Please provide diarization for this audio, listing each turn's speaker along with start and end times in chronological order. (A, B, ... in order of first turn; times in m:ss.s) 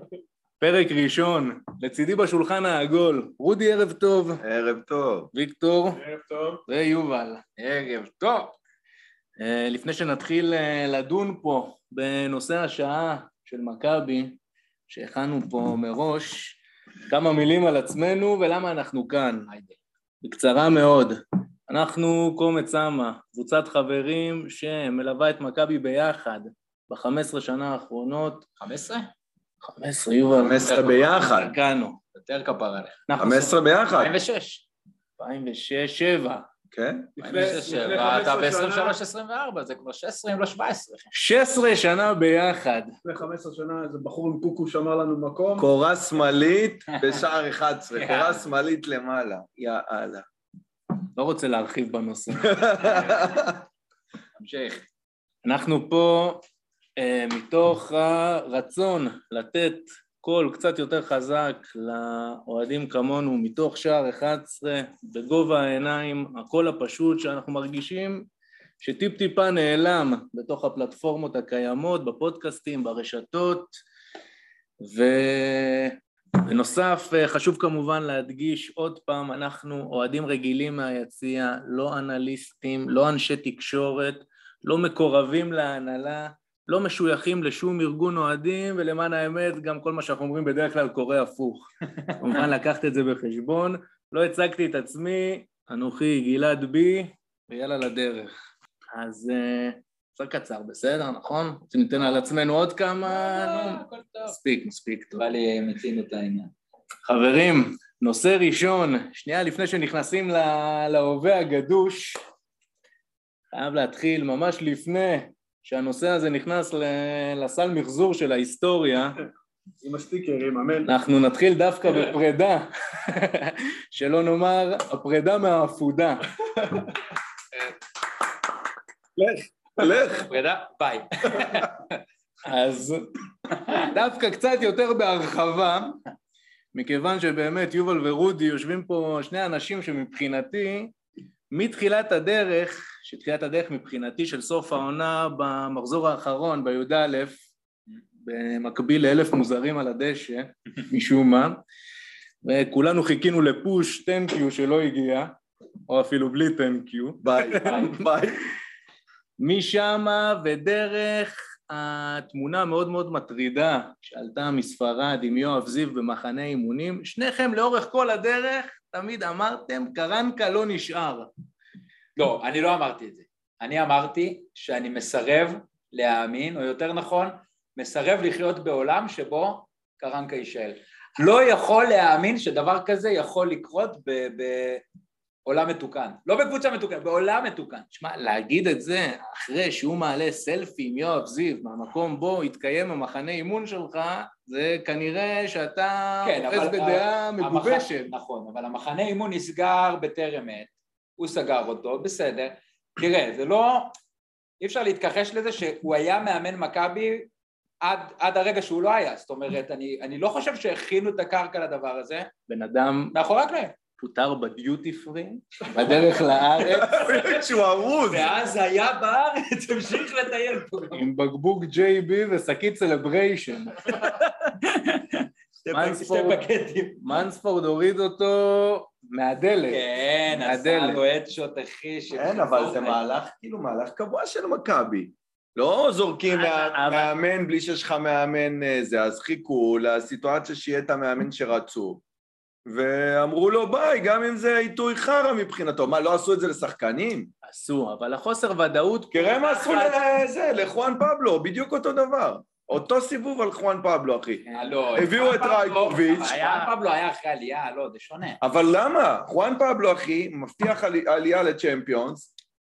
0:00.6-0:04.4 A
0:04.4-0:05.3 B
0:05.3-0:06.0 A
0:05.9-0:06.6 C
0:06.7-0:07.4 A
0:07.6-0:08.5 D
0:09.4-0:19.5 A
0:19.5-0:19.8 D
0:20.2-0:28.5 A
0:28.6-0:29.1 D
0:29.6-0:32.0 A
0:30.4-0:31.5 B
0:30.7-0:31.0 D
0:32.1-0:33.0 D
0:33.1-0:33.5 A
0:33.2-0:34.2 B
0:33.9-0:34.6 D
0:35.2-0:36.4 A
0:36.7-0:37.2 B
0:37.2-0:39.0 C
0:37.2-0:41.1 D
0:41.1-0:42.9 A
0:43.0-0:45.7 C
0:45.6-0:50.2 B
0:46.9-0:47.2 D
0:47.9-0:48.4 D
0:51.2-0:52.7 A
0:52.4-0:53.6 B
0:52.8-0:53.4 D
0:54.4-0:54.8 D
0:55.4-0:56.4 A
0:57.0-1:08.3 A
1:08.8-1:13.8 A
1:14.8-1:38.3 A
1:38.9-1:45.2 A
1:43.0-1:44.3 D
1:45.2-1:46.5 D
1:47.0-1:52.2 A
1:53.5-1:59.2 A
1:59.8-2:00.9 C
2:00.8-2:06.2 A
2:09.2-2:10.3 B
2:09.8-2:12.0 D
2:12.4-2:13.1 A
2:13.7-2:16.0 A
2:16.7-2:20.9 A
2:21.5-2:27.4 A
2:28.2-2:31.6 A
2:32.4-2:38.0 A
2:37.2-2:38.4 B
2:39.4-2:51.3 A
2:52.2-3:04.8 D
3:05.4-3:07.9 D
3:07.9-3:18.1 A
3:16.2-3:23.9 D
3:24.6-3:27.3 D
3:27.8-3:32.3 D
3:32.5-3:33.1 A
3:33.1-3:33.8 D
3:34.0-3:37.0 A
3:36.6-3:38.3 B
3:36.8-3:37.4 D
3:38.0-3:41.1 D
3:40.9-3:44.0 A
3:43.8-3:47.2 D
3:45.7-3:46.4 A
3:47.0-3:51.0 A
3:49.7-3:53.0 D
3:52.1-4:02.0 B
3:56.4-3:56.8 D
3:56.7-3:57.1 A
4:02.6-4:07.3 B
4:07.4-4:09.9 A
4:09.1-4:16.3 B
4:14.5-4:18.4 D
4:16.2-4:16.7 A
4:18.4-4:22.3 B